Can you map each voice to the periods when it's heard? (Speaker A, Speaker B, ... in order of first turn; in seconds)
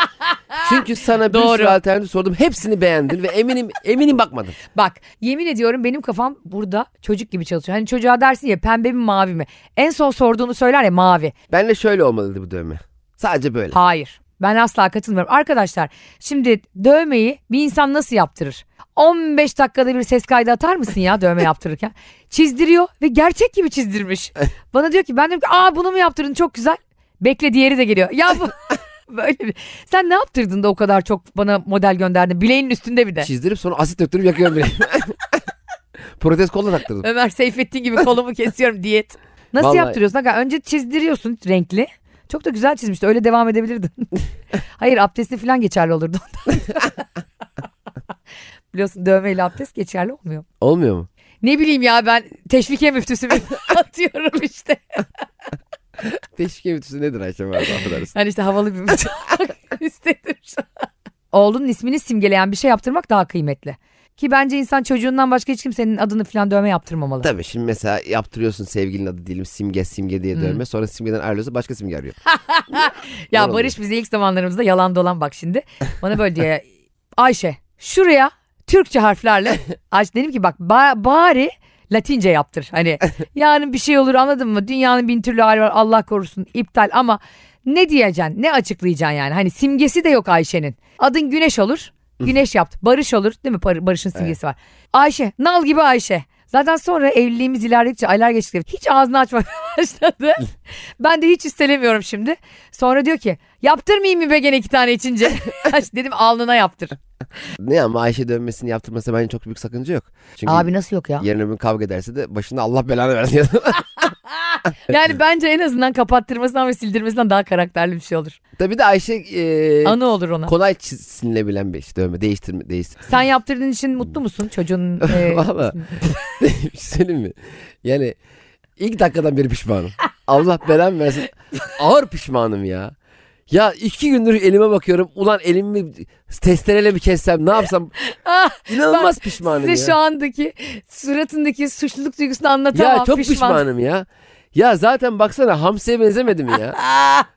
Speaker A: 0.2-0.8, 1.3-1.8, 4.8-11.3, 13.7-33.3, 37.0-44.2, 44.8-47.0, 48.7-50.5, 51.4-55.0, 58.1-67.3, 70.3-70.6, 72.3-76.7, 77.2-107.0, 110.5-111.2, 114.5-118.4, 119.8-120.5, 123.1-126.2, 138.0-143.6, 146.8-147.3
Speaker B: 0.6-4.6, 11.5-13.8, 33.2-35.4, 36.2-37.1, 39.6-40.0, 50.6-51.1, 56.1-58.1, 67.2-72.2, 73.3-73.7, 107.6-110.7, 111.2-113.8, 118.6-123.1, 125.0-128.2, 128.8-132.9, 133.5-137.9, 138.7-140.0, 142.7-146.8